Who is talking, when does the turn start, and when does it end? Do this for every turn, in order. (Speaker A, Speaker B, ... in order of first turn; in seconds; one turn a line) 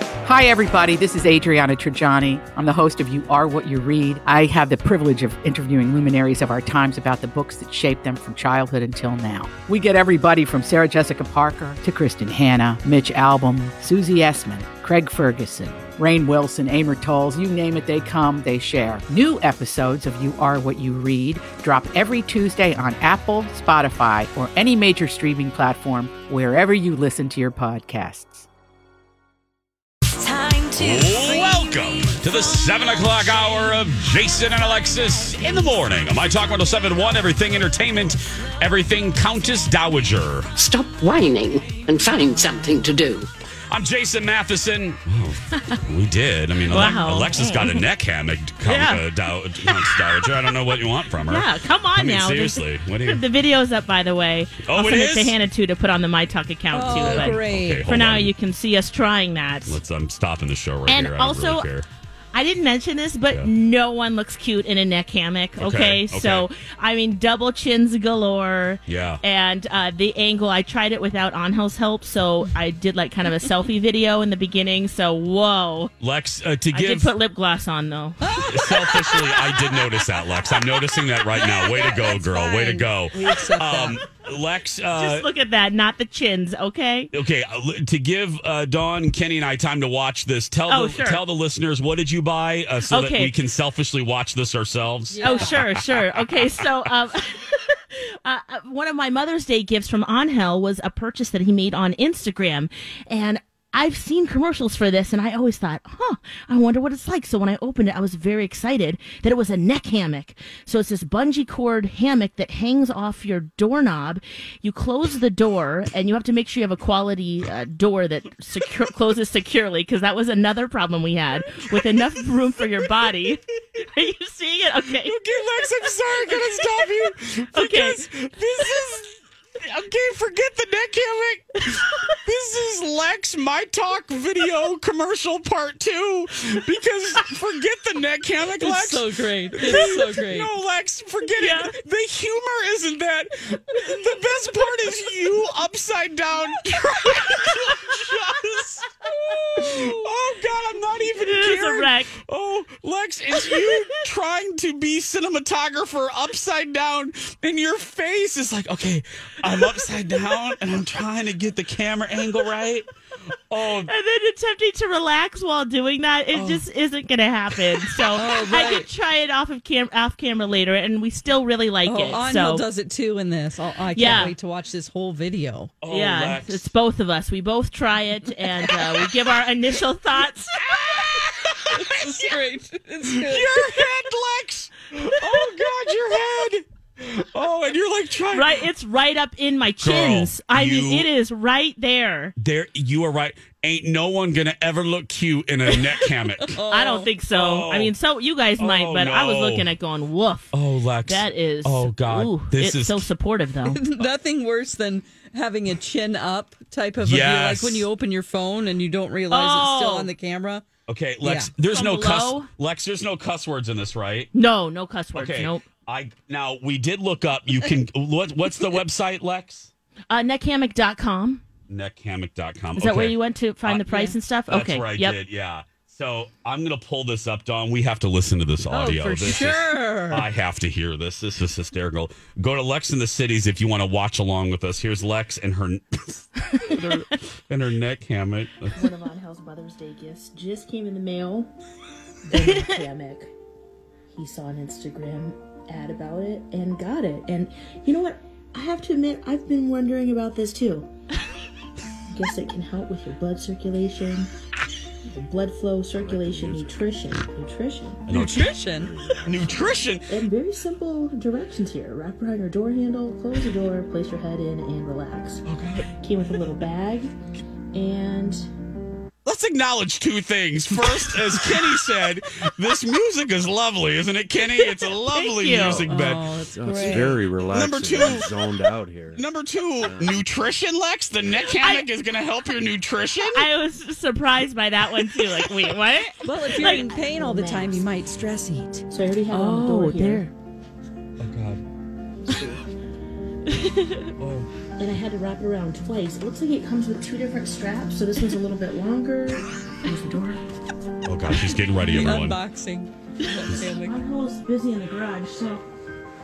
Speaker A: 0.2-28.4
Speaker B: 30.2-33.0
Speaker C: 30.8-40.5
Speaker B: 40.6-43.3
Speaker C: 43.7-53.2
Speaker D: 46.7-47.8
Speaker D: 48.6-49.0
Speaker D: 49.6-50.0
Speaker D: 51.2-59.8
Speaker C: 54.6-55.4
Speaker E: 56.7-57.9
Speaker C: 56.9-58.4
Speaker C: 59.6-61.9
Speaker D: 60.9-61.7
Speaker D: 62.3-75.9
Speaker C: 65.6-66.5
Speaker C: 68.9-69.2
Speaker C: 76.0-77.1
Speaker D: 76.7-78.9
Speaker E: 78.2-80.0
Speaker C: 78.4-85.3
Speaker E: 81.3-84.0
Speaker D: 81.6-82.9
Speaker D: 84.9-87.1
Speaker C: 87.1-96.4
Speaker D: 90.7-91.2
Speaker D: 92.8-93.3
Speaker E: 95.1-95.6
Speaker D: 95.2-125.2
Speaker C: 125.0-162.9
Speaker D: 126.1-126.9
Speaker D: 127.5-128.1
Speaker E: 138.6-140.5
Speaker D: 141.4-141.7
Speaker D: 149.5-150.1
Speaker D: 151.1-152.1
Speaker D: 153.5-153.9
Speaker C: 163.5-163.9
Speaker D: 163.8-172.6
Speaker C: 166.3-166.6
Speaker E: 168.1-168.9
Speaker E: 171.8-175.8
Speaker D: 173.9-174.3
Speaker C: 174.1-174.3
Speaker C: 175.8-176.7
Speaker D: 175.8-180.5
Speaker C: 180.6-182.3
Speaker E: 181.7-183.7
Speaker C: 183.0-188.6
Speaker D: 188.3-192.3
Speaker C: 189.8-191.1
Speaker C: 192.4-196.6
Speaker E: 196.0-197.1
Speaker D: 196.7-200.5
Speaker C: 197.3-197.9
Speaker C: 198.6-199.7
Speaker C: 200.5-203.1
Speaker D: 201.0-203.8
Speaker E: 203.7-210.6
Speaker C: 207.0-207.8
Speaker D: 209.3-210.1
Speaker C: 210.9-214.3
Speaker E: 211.2-211.5
Speaker D: 211.7-212.5
Speaker D: 214.3-215.6
Speaker C: 215.1-219.7
Speaker D: 220.1-221.4
Speaker C: 221.7-223.9
Speaker D: 222.8-225.2
Speaker E: 223.9-224.1
Speaker C: 224.5-238.8
Speaker E: 228.7-230.2
Speaker F: 238.7-241.5
Speaker F: 242.2-243.3
Speaker D: 242.4-242.7
Speaker F: 244.1-250.9
Speaker F: 252.1-254.3
Speaker F: 255.1-258.0
Speaker G: 255.9-257.1
Speaker G: 258.1-259.9
Speaker C: 258.1-258.6
Speaker E: 258.1-258.9
Speaker C: 259.2-260.2
Speaker F: 260.1-265.4
Speaker C: 265.4-265.9
Speaker F: 266.0-267.1
Speaker F: 267.7-268.4
Speaker C: 269.2-276.3
Speaker D: 274.6-275.9
Speaker G: 275.6-279.2
Speaker E: 275.8-277.3
Speaker C: 277.5-283.5
Speaker G: 279.8-280.3
Speaker D: 281.5-281.9
Speaker D: 283.3-286.9
Speaker E: 286.2-288.8
Speaker F: 286.9-287.9
Speaker F: 288.9-290.3
Speaker D: 289.3-290.3
Speaker C: 291.2-291.6
Speaker F: 292.2-292.6
Speaker D: 293.6-294.1
Speaker C: 294.2-294.5
Speaker F: 294.8-300.4
Speaker C: 301.1-302.4
Speaker E: 301.8-304.0
Speaker F: 303.8-305.6